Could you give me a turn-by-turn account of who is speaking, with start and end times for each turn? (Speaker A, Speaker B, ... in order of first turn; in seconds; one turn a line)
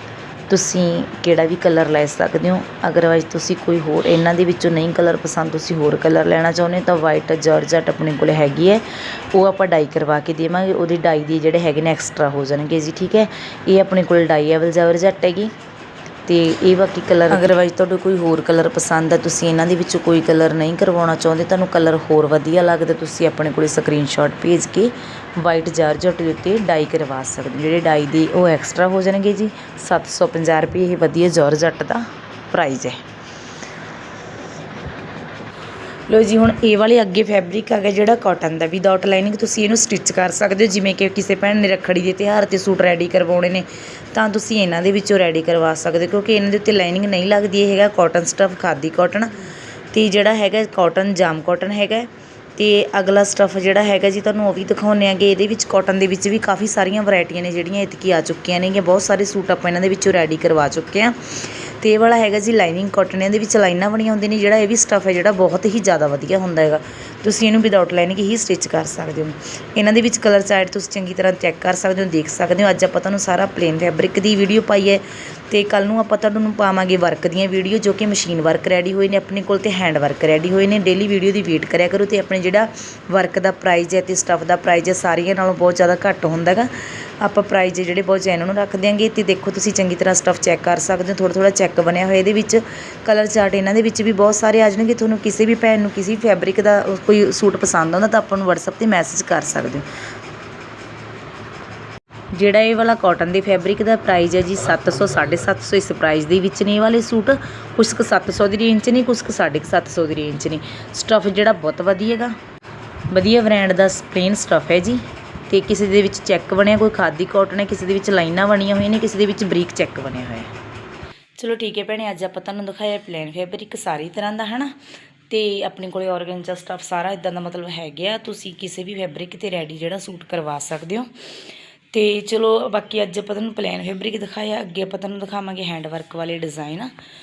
Speaker A: 0.5-15.5
Speaker A: 16.3-33.0
Speaker A: 36.1-49.4
Speaker A: 49.9-99.9
Speaker A: 102.3-112.3
Speaker A: 113.1-120.5
Speaker A: 121.4-124.8
Speaker A: 125.3-131.1
Speaker A: 131.9-136.9